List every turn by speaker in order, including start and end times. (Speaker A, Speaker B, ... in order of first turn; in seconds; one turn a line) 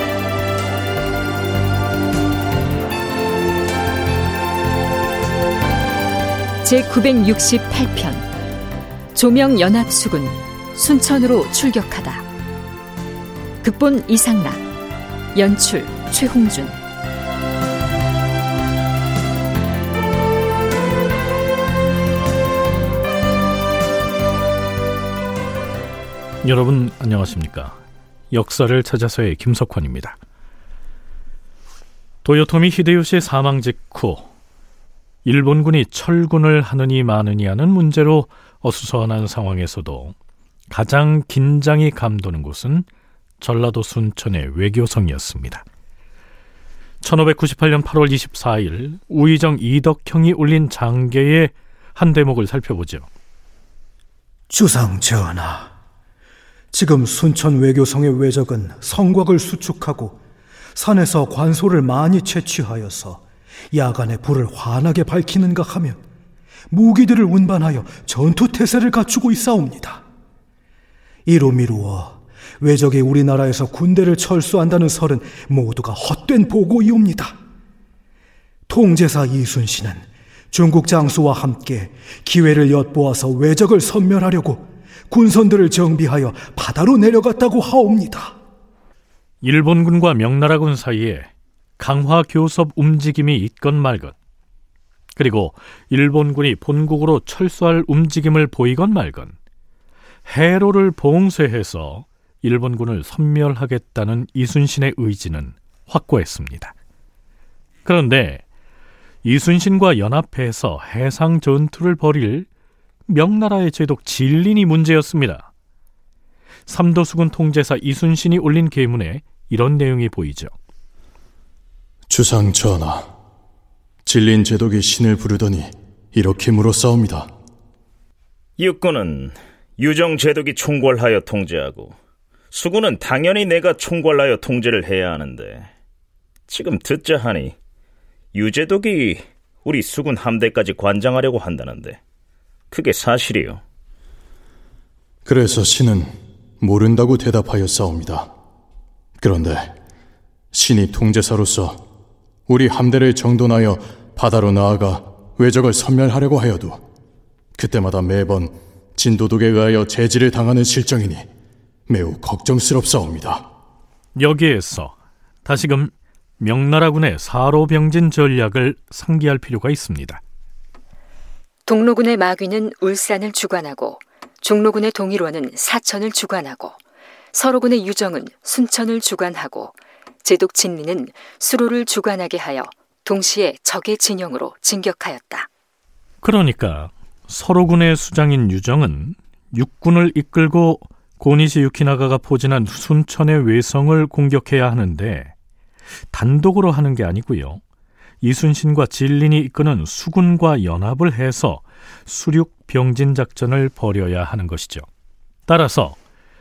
Speaker A: 6.6-8.3
Speaker A: 9.1-12.2
Speaker A: 13.6-14.7
Speaker A: 15.3-16.8
Speaker B: 26.4-27.8
Speaker B: 28.3-30.2
Speaker B: 32.2-34.3
Speaker B: 35.2-40.1
Speaker B: 40.7-42.9
Speaker B: 43.4-45.6
Speaker B: 47.0-53.1
Speaker C: 54.5-55.7
Speaker C: 56.7-60.2
Speaker C: 60.7-63.2
Speaker C: 63.7-66.0
Speaker C: 66.7-70.0
Speaker C: 71.3-77.3
Speaker C: 78.7-88.4
Speaker B: 89.4-94.1
Speaker B: 95.2-99.3
Speaker B: 100.3-106.7
Speaker B: 107.8-108.4
Speaker B: 109.2-112.5
Speaker B: 113.1-115.5
Speaker B: 116.7-120.5
Speaker D: 122.1-123.1
Speaker D: 124.1-127.3
Speaker E: 128.6-131.9
Speaker E: 132.5-135.7
Speaker E: 136.5-137.6
Speaker E: 138.3-142.0
Speaker E: 142.7-143.6
Speaker D: 145.2-146.1
Speaker D: 146.6-148.3
Speaker D: 149.2-149.6
Speaker D: 150.5-151.8
Speaker D: 152.5-156.8
Speaker D: 157.6-161.2
Speaker D: 161.9-163.4
Speaker B: 164.2-170.2
Speaker A: 171.7-176.8
Speaker A: 177.3-185.5
Speaker B: 186.2-195.3
Speaker B: 196.1-197.6
Speaker B: 198.2-204.8
Speaker B: 205.5-206.0